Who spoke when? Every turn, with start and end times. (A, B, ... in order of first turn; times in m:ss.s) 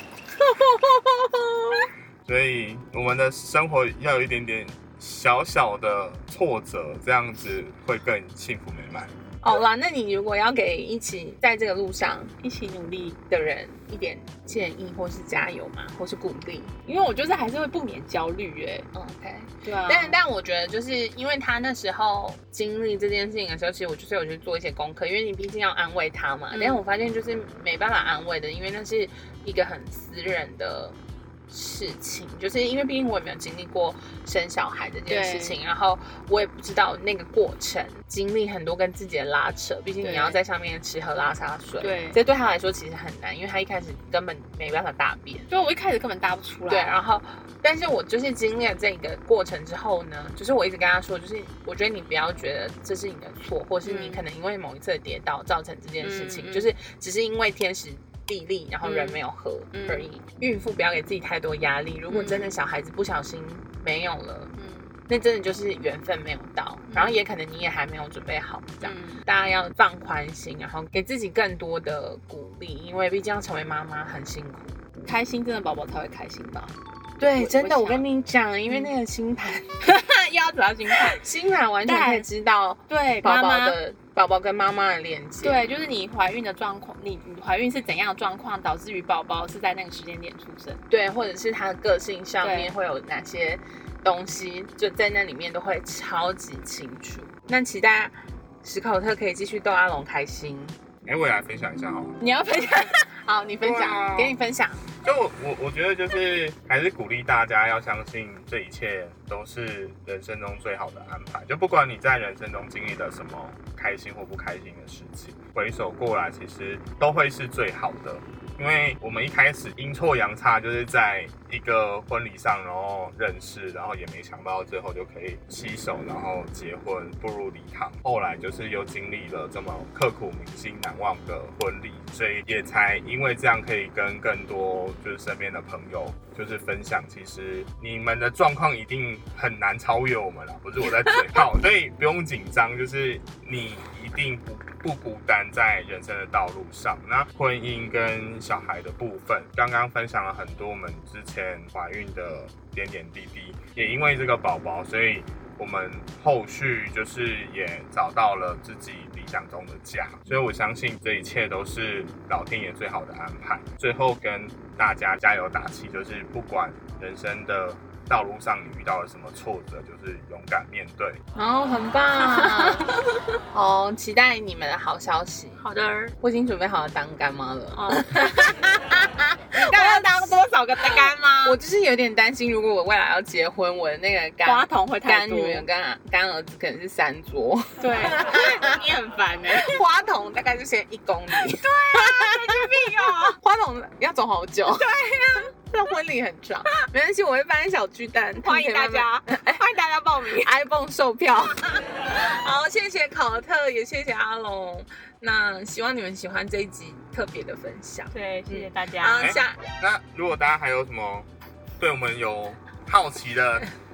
0:00.5-0:01.8 A
0:02.2-0:09.1 B
0:09.4-0:12.3 A
0:12.4-0:13.2 C
0:13.3-0:16.7 A
0:16.8-0:18.9 C
0:18.9-0:31.0 A
0:19.6-0:20.2 C
0:26.5-0:26.8 C
0:31.5-0:45.5 A
0:35.1-0:35.6 C
0:40.0-0:40.4 C
0:41.8-0:42.2 C
0:45.5-0:47.0 C
0:46.7-1:04.5 A
0:53.8-0:54.2 C
0:56.0-0:56.7 C
0:58.8-0:59.2 C
0:59.7-1:00.1 C
1:02.1-1:02.6 C
1:04.6-1:04.9 C
1:05.1-1:14.8 A
1:06.9-1:07.2 C
1:08.8-1:09.2 C
1:15.0-1:18.0 C
1:17.2-1:19.7 A
1:19.8-1:21.2 C
1:21.0-1:25.6 A
1:21.9-1:22.3 C
1:22.9-1:23.8 C
1:25.4-1:30.8 C
1:30.9-1:40.8 A
1:32.4-1:32.7 C
1:41.0-1:42.2 B
1:42.2-1:43.0 C
1:43.2-1:44.8 A
1:43.6-1:44.4 B
1:45.0-2:51.2 B
2:51.4-2:53.0 A
2:52.2-2:53.2 C
2:53.5-2:55.6 A
2:55.6-2:56.1 C
2:56.2-3:00.3 A
2:57.7-2:58.3 C
2:59.6-3:01.6 C
3:01.4-3:08.8 A
3:04.4-3:05.6 C
3:07.8-3:09.8 C
3:09.5-3:19.6 A
3:11.4-3:13.4 C
3:14.6-3:15.5 C
3:18.4-3:20.5 C
3:20.4-3:29.6 A
3:28.1-3:29.3 C
3:29.2-3:31.3 B
3:31.8-3:33.7 B